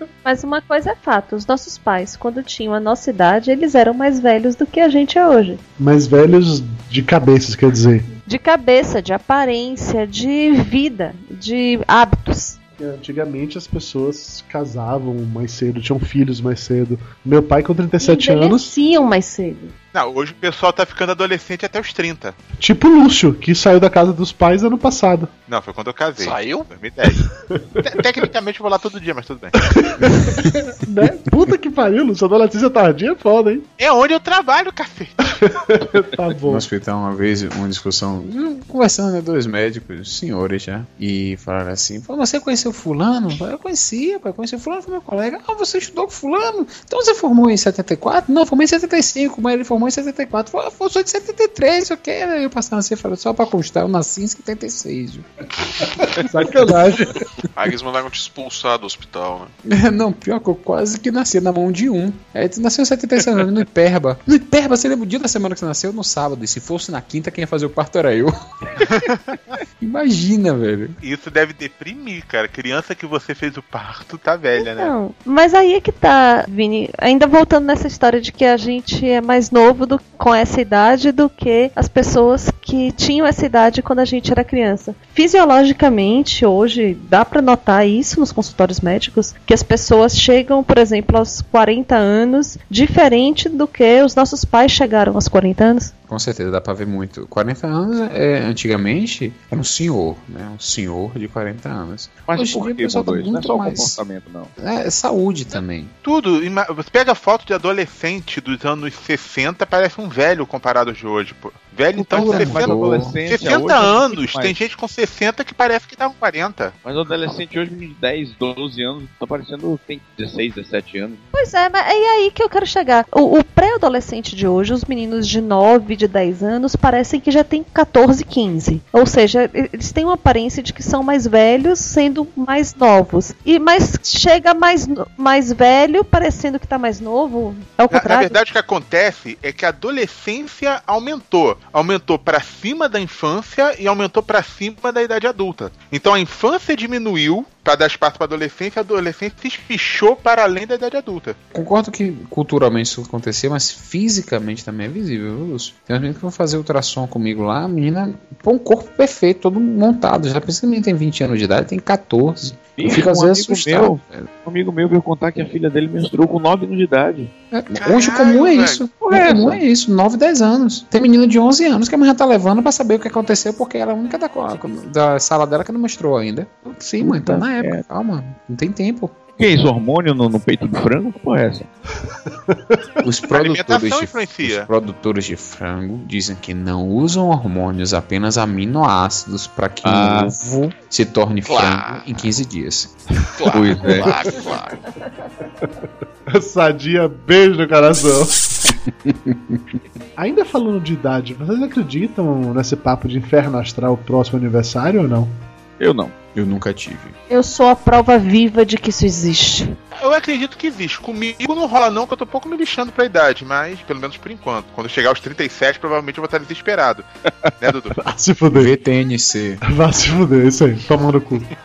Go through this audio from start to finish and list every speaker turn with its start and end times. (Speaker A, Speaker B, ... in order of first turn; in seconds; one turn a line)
Speaker A: 0.2-5.6
Speaker B: 5.8-8.1
Speaker A: 8.3-12.6
Speaker B: 12.8-18.7
Speaker A: 18.0-19.7
Speaker C: 19.9-22.4
Speaker B: 22.6-25.3
Speaker C: 25.5-29.6
Speaker D: 26.2-26.7
Speaker B: 29.6-33.7
Speaker C: 33.8-35.5
Speaker B: 35.5-36.7
Speaker E: 36.5-55.3
Speaker B: 56.1-57.2
Speaker D: 57.5-59.5
Speaker E: 59.7-68.4
Speaker C: 68.9-69.3
Speaker E: 69.8-71.0
Speaker C: 71.0-74.9
Speaker A: 74.6-95.9
Speaker E: 96.1-104.0
Speaker F: 102.3-104.5
Speaker E: 104.6-105.9
Speaker C: 106.0-116.7
Speaker F: 112.0-114.6
Speaker E: 112.1-113.2
Speaker F: 116.8-121.2
Speaker A: 121.3-138.4
Speaker C: 137.9-151.4
Speaker E: 151.5-164.3
Speaker F: 162.8-167.3
Speaker E: 167.5-179.2
Speaker D: 167.8-168.9
Speaker F: 169.0-169.6
Speaker F: 177.0-177.8
Speaker F: 179.4-181.7
Speaker E: 183.0-192.9
Speaker C: 183.3-184.7
Speaker F: 189.8-190.3
Speaker B: 190.4-190.7
Speaker D: 191.5-192.0
Speaker D: 193.4-194.8
Speaker F: 193.5-194.2
Speaker B: 196.3-198.5
Speaker E: 198.9-199.6
Speaker B: 200.2-205.3
Speaker F: 205.8-206.1
Speaker E: 206.3-207.2
Speaker A: 207.3-209.8
Speaker C: 210.0-217.1
Speaker C: 217.6-218.0
Speaker B: 218.0-218.7
Speaker E: 218.5-219.6
Speaker B: 219.7-221.5